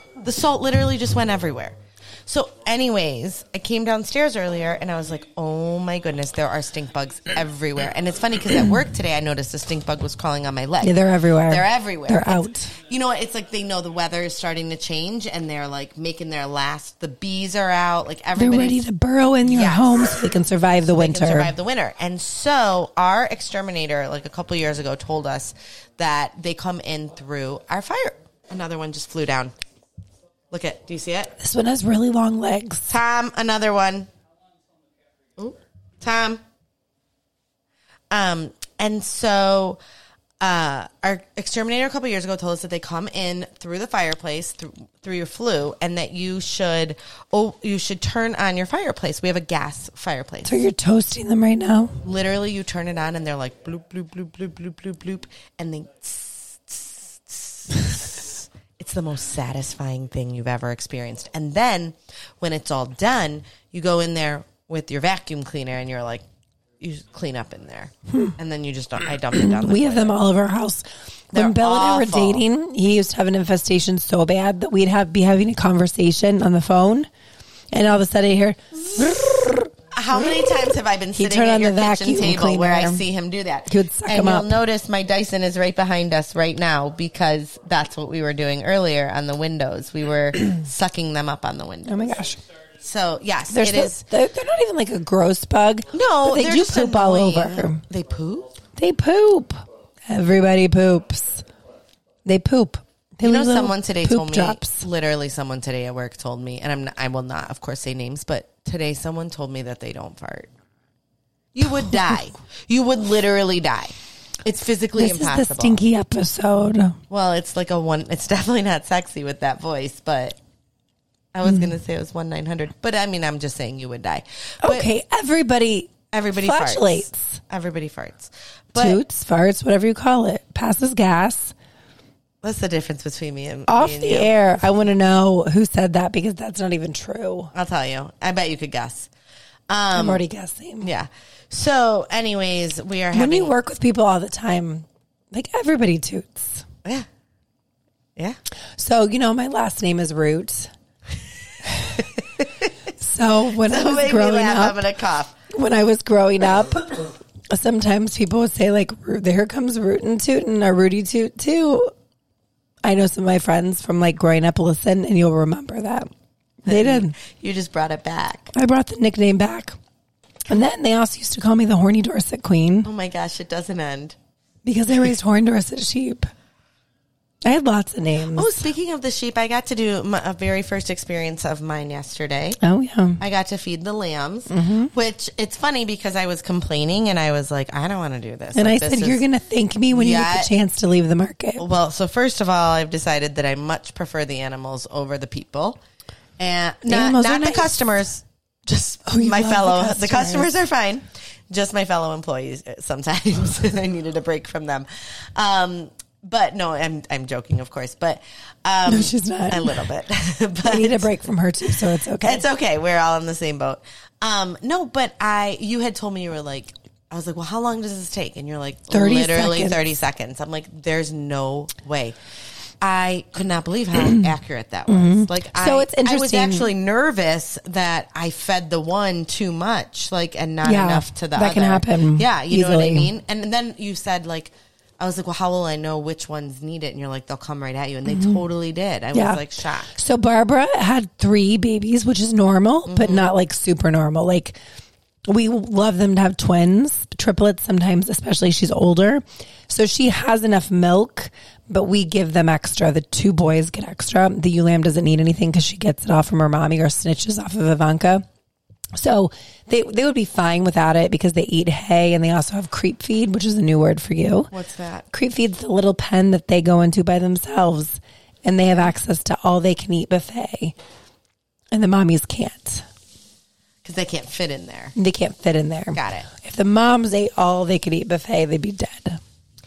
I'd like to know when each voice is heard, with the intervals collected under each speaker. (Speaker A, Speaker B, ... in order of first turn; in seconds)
Speaker A: 0.2-11.0, 11.5-18.8, 19.4-20.1, 20.9-29.5, 30.5-31.3, 32.9-34.1, 35.4-36.4, 38.1-39.8, 40.4-50.5, 52.0-66.2, 66.8-70.2, 71.3-72.4, 79.9-92.0, 92.8-94.0, 95.9-98.6, 103.2-110.5, 111.5-115.8, 117.1-120.4, 121.3-124.9, 126.1-129.0, 132.4-134.3, 137.5-139.1, 139.7-140.2, 140.8-143.5, 153.6-155.3, 166.7-168.5, 172.8-174.2, 178.3-182.6, 183.2-189.2, 189.9-190.5, 191.6-195.8, 196.4-211.1, 212.2-222.2, 222.8-239.9, 242.9-243.3, 264.5-265.1, 273.8-274.9, 275.9-276.3
Speaker B: 10.8-12.7, 18.4-21.5, 31.4-32.9, 50.4-52.0, 68.1-68.3, 69.3-77.1, 77.7-79.7, 81.1-83.0, 83.7-84.6, 91.8-92.4, 93.5-97.8, 98.8-101.4, 102.2-104.8, 115.0-117.0, 121.5-121.7, 124.6-127.4, 128.8-131.5, 133.7-137.5, 139.9-140.9, 143.1-146.6, 148.8-150.7, 153.0-154.8, 155.5-161.9, 162.8-166.1, 166.6-167.1, 168.5-169.8, 170.5-172.9, 174.6-176.3, 177.4-178.6, 182.6-183.2, 184.5-184.9, 188.5-191.7, 196.8-197.8, 199.1-200.5, 208.9-209.8, 210.6-212.4, 218.9-219.8, 224.0-224.3, 224.9-226.7, 230.6-233.1, 238.1-238.4, 239.1-239.4, 239.9-244.6, 245.3-258.2, 258.9-264.5, 265.1-270.7, 271.7-272.8, 274.9-279.2